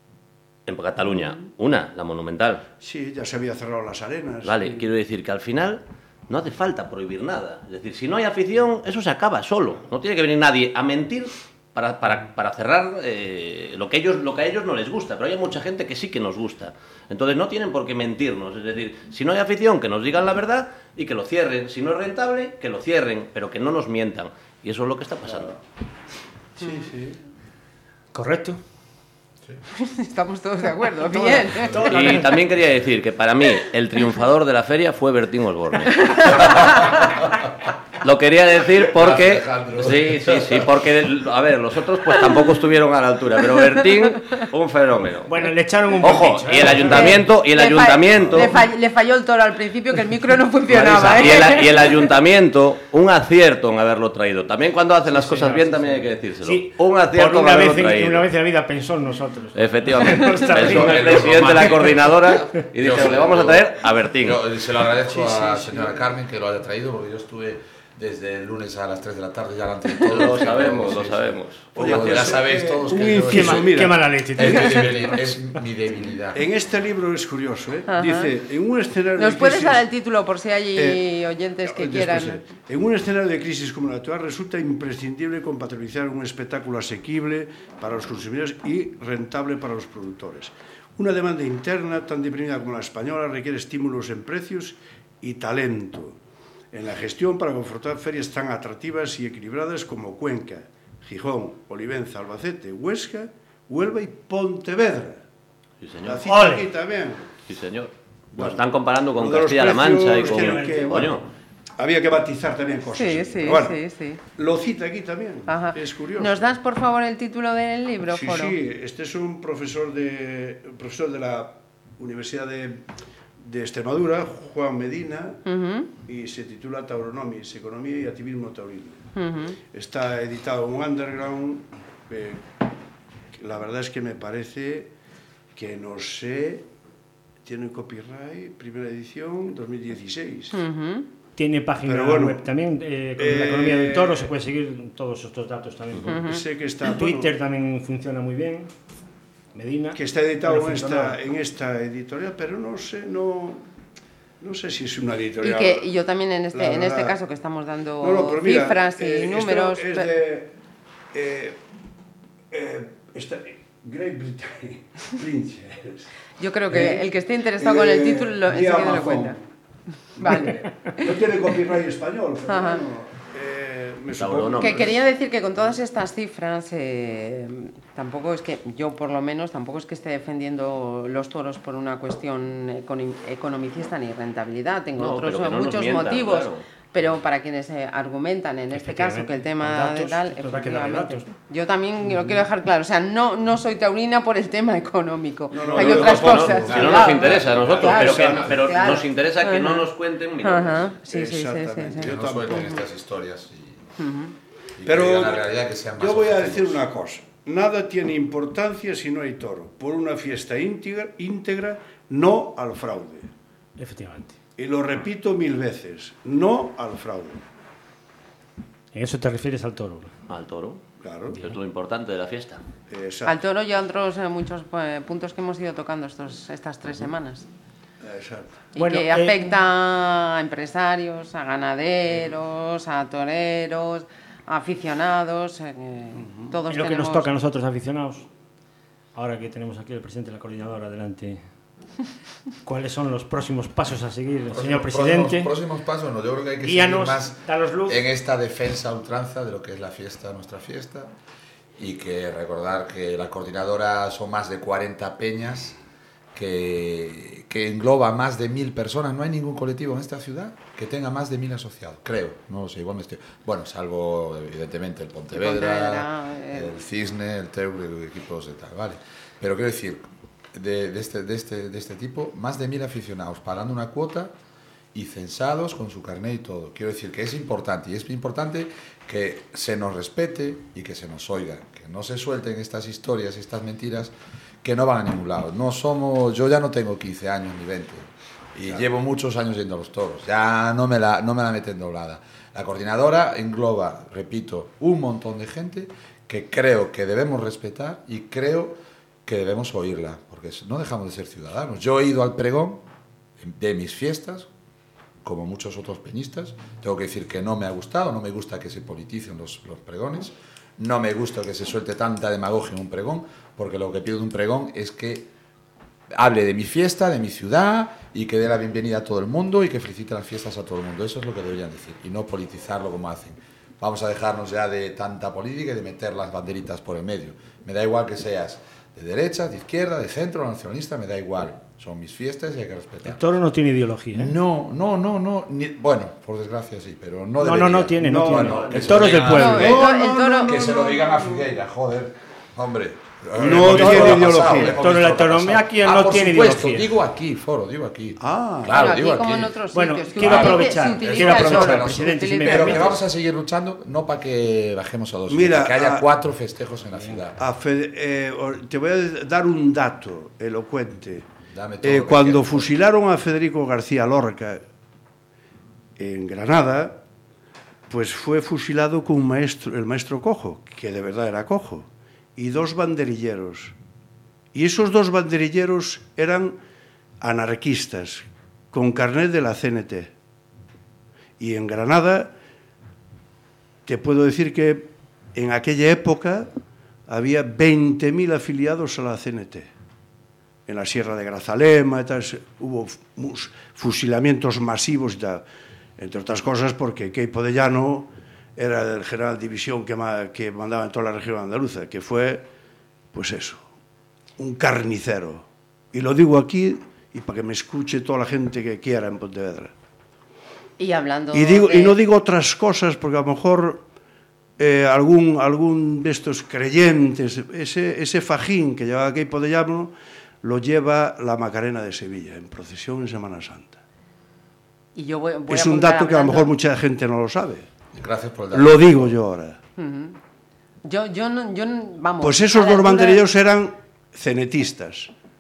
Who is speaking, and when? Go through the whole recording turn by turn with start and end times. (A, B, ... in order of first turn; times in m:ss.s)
0:00.7-0:02.7 A
0:02.8-0:04.9 B
0:04.4-0:25.6 A
0:26.6-0:27.2 B
0:26.6-0:26.9 C
0:28.1-0:28.6 D
0:29.7-0:32.2 C
0:31.1-0:32.4 D
0:31.8-0:36.9 A
0:35.9-0:36.8 C
0:36.3-0:37.4 E
0:38.0-0:45.5 A
0:38.9-0:40.8 E
0:45.3-0:47.2 D
0:46.0-0:48.6 A
0:46.7-0:52.1 C
0:48.2-0:48.5 E
0:50.7-0:58.3 A
0:55.2-0:55.9 D
0:56.4-1:01.4 D
0:59.6-1:04.4 A
1:00.5-1:03.6 E
1:04.2-1:13.8 E
1:05.1-1:06.0 B
1:10.0-1:12.4 A
1:11.8-1:14.1 B
1:13.3-1:15.4 D
1:14.4-1:16.4 E
1:16.3-1:19.8 B
1:17.9-1:18.3 C
1:19.2-1:22.4 C
1:20.8-1:21.0 B
1:21.6-1:36.2 B
1:36.7-1:45.2 B
1:45.8-1:46.2 A
1:46.0-1:47.4 B
1:46.2-1:46.7 D
1:47.5-1:51.3 A
1:48.4-1:48.6 B
1:49.2-1:51.2 B
1:50.2-1:51.1 D
1:51.8-1:53.8 B
1:52.9-1:54.2 C
1:54.3-1:56.4 B
1:55.5-1:58.6 C
1:58.0-2:02.8 B
2:03.4-2:05.4 B
2:05.5-2:05.9 C
2:06.0-2:09.1 B
2:09.2-2:09.6 C
2:09.7-2:12.5 B
2:13.4-2:14.9 B
2:15.6-2:16.7 B
2:17.4-2:20.6 B
2:20.5-2:21.1 C
2:21.4-2:28.7 D
2:21.8-2:22.4 B
2:23.2-2:24.3 B
2:26.1-2:26.4 C
2:26.3-2:27.3 B
2:29.6-2:31.2 D
2:29.9-2:33.6 B
2:34.4-2:35.9 B
2:35.4-2:40.1 C
2:36.5-2:37.2 B
2:38.0-2:40.5 B
2:41.1-2:41.6 B
2:42.5-2:46.1 B
2:46.4-2:49.4 C
2:46.7-2:47.1 B
2:47.6-2:49.4 B
2:50.2-2:51.2 C
2:50.2-2:55.0 B
2:52.5-2:52.8 C
2:54.2-2:55.0 A
2:54.6-3:19.9 C
3:05.0-3:06.6 A
3:08.7-3:11.3 D
3:15.5-3:19.0 B
3:15.8-3:20.9 A
3:16.8-3:18.0 E
3:20.4-3:22.8 C
3:21.1-3:22.7 B
3:22.0-3:23.8 E
3:24.0-3:24.4 C
3:24.8-3:26.8 E
3:24.8-3:25.5 B
3:26.0-3:33.3 B
3:33.8-3:34.4 D
3:34.6-3:37.4 B
3:38.9-3:40.1 D
3:40.3-3:40.8 A
3:41.0-3:41.4 B
3:41.4-3:42.6 A
3:42.9-3:43.4 B
3:43.2-3:47.5 C
3:48.0-3:48.7 B
3:48.7-3:57.3 C
3:48.8-3:49.4 D
3:56.2-3:56.6 B
3:56.7-3:58.3 D
3:59.2-4:01.4 D
4:02.6-4:05.5 D
4:04.5-4:11.1 E
4:06.6-4:08.0 D
4:11.8-4:15.8 E
4:16.4-4:34.3 E
4:25.3-4:26.8 C
4:34.9-5:02.8 E
5:03.4-5:04.5 E
5:05.2-5:15.3 E
5:16.2-5:33.3 E
5:33.0-5:34.3 D
5:34.1-5:39.9 E
5:37.4-5:39.8 D
5:38.0-5:41.4 B
5:39.3-5:40.8 C
5:40.4-5:49.6 E
5:43.4-5:44.8 B
5:44.6-5:46.9 D
5:48.2-5:48.9 B
5:48.7-5:53.0 C
5:49.7-5:53.0 D
5:50.2-5:57.4 E
5:55.3-5:56.1 B
5:57.4-6:01.3 B
6:01.5-6:02.7 E
6:01.8-6:04.6 B
6:06.0-6:07.0 B
6:07.9-6:13.8 B
6:14.5-6:16.6 B
6:17.2-6:20.1 B
6:21.4-6:22.3 B
6:23.9-6:26.5 B
6:27.1-6:29.7 B
6:30.7-6:35.4 B
6:36.0-6:42.4 B
6:43.1-6:43.6 B
6:44.4-6:49.7 B
6:50.8-6:52.0 C
6:51.3-6:53.8 B
6:54.6-7:03.8 B
7:05.0-7:06.5 C
7:05.5-7:07.7 B
7:07.9-7:09.2 E
7:08.5-7:09.6 B
7:09.8-7:10.2 C
7:10.8-7:13.2 C
7:12.2-7:15.1 B